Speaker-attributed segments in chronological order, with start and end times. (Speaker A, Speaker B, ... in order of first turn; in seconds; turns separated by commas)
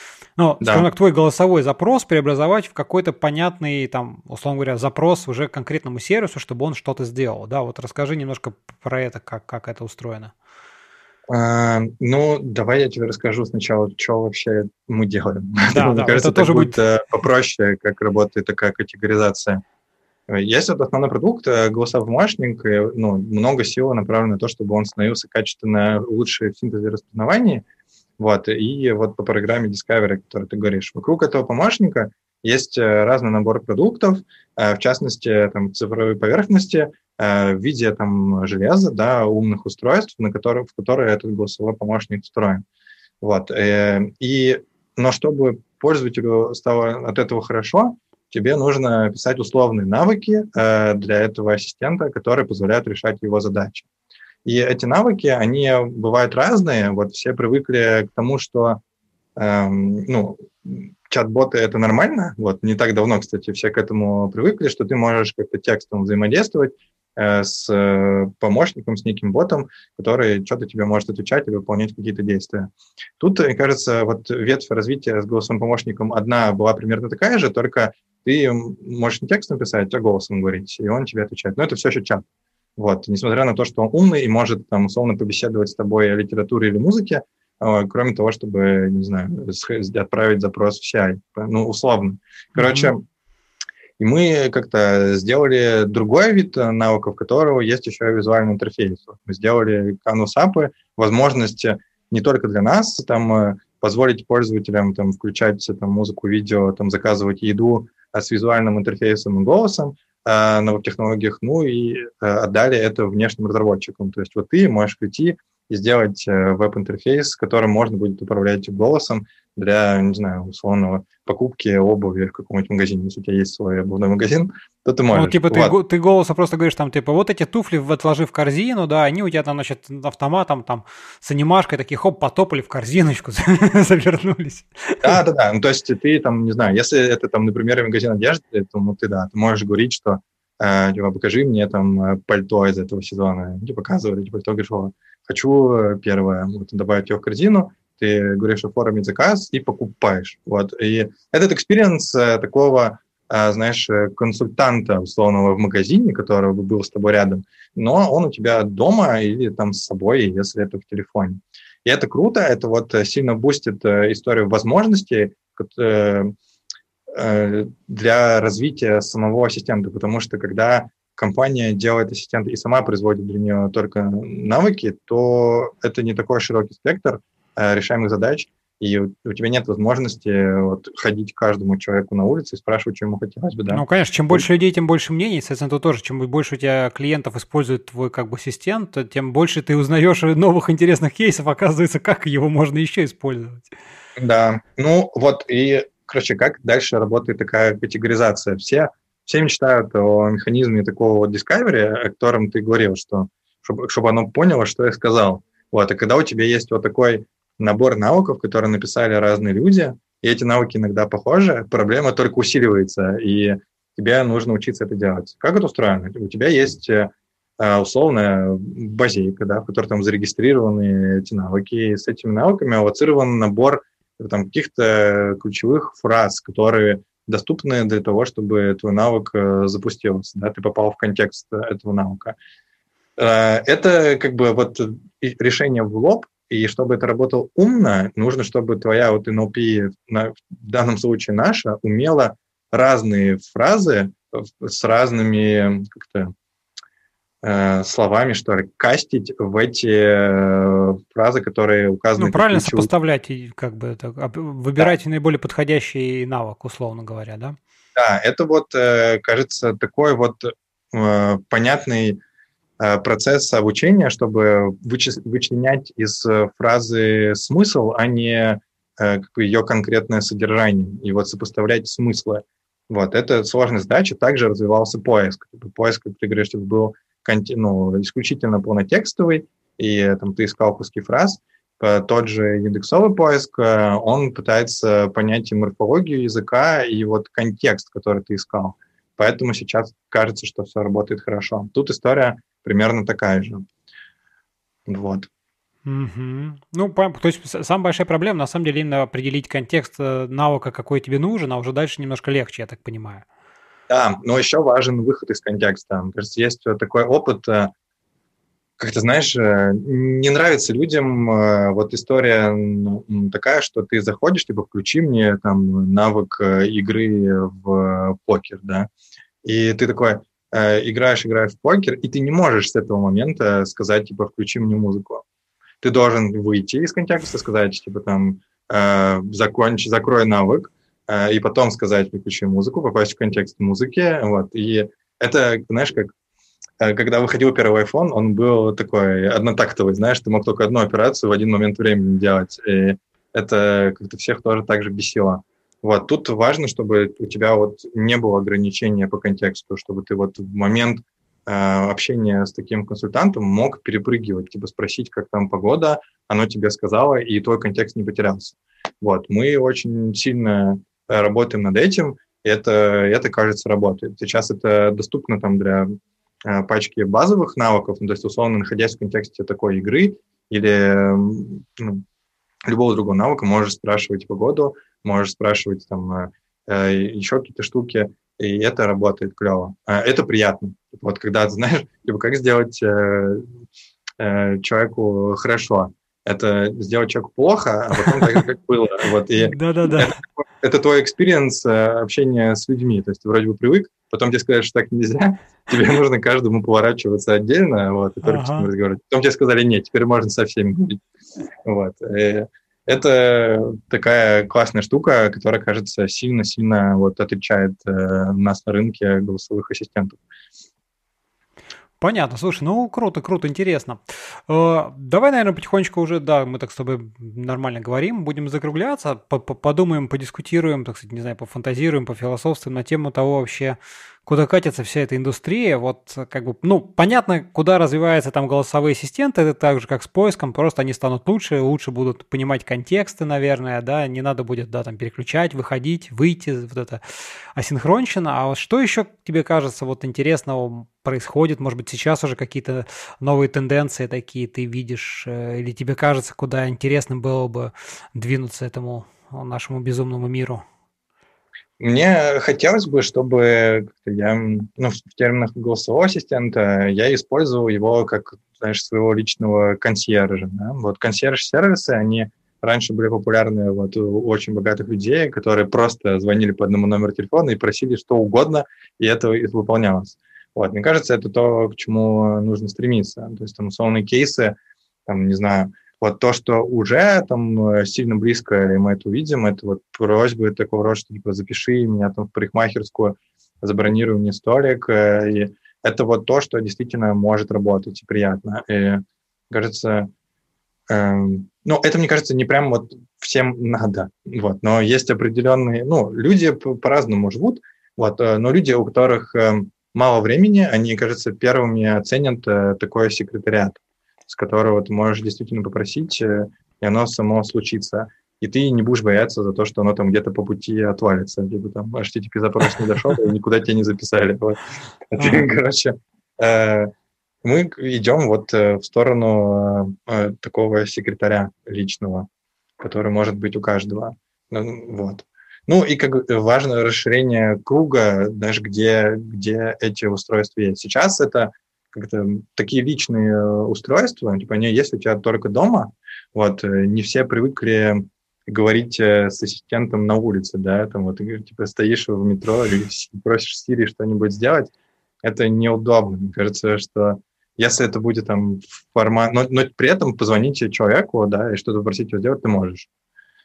Speaker A: 0.4-10.3, Speaker B: 0.6-0.9, Speaker B: 11.3-19.6, Speaker A: 15.7-16.8, Speaker B: 20.3-27.6, Speaker B: 28.2-42.6, Speaker B: 43.2-53.9, Speaker B: 54.5-58.8, Speaker B: 59.4-82.2, Speaker B: 82.8-93.0, Speaker A: 92.6-92.9, Speaker B: 94.0-125.7, Speaker A: 125.1-135.2, Speaker B: 135.0-166.3, Speaker B: 167.1-184.4, Speaker A: 183.7-193.7, Speaker B: 194.2-232.3, Speaker B: 233.2-246.3, Speaker B: 247.4-252.9, Speaker A: 252.2-257.6, Speaker B: 257.9-262.2, Speaker B: 262.8-293.6, Speaker B: 294.9-295.3, Speaker A: 295.9-303.2, Speaker B: 303.9-307.7, Speaker B: 308.8-318.9, Speaker B: 319.4-325.2, Speaker B: 325.8-336.1, Speaker B: 336.8-365.9, Speaker B: 366.4-372.0, Speaker B: 372.7-383.5, Speaker B: 384.2-401.0, Speaker A: 389.4-390.2, Speaker A: 398.2-398.7, Speaker B: 401.6-410.2, Speaker A: 412.0-437.0, Speaker A: 437.6-450.6, Speaker B: 451.8-490.1, Speaker B: 490.9-514.6, Speaker B: 515.1-516.9, Speaker A: 515.2-515.4, Speaker B: 517.4-522.3, Speaker B: 522.8-544.7, Speaker B: 545.2-552.9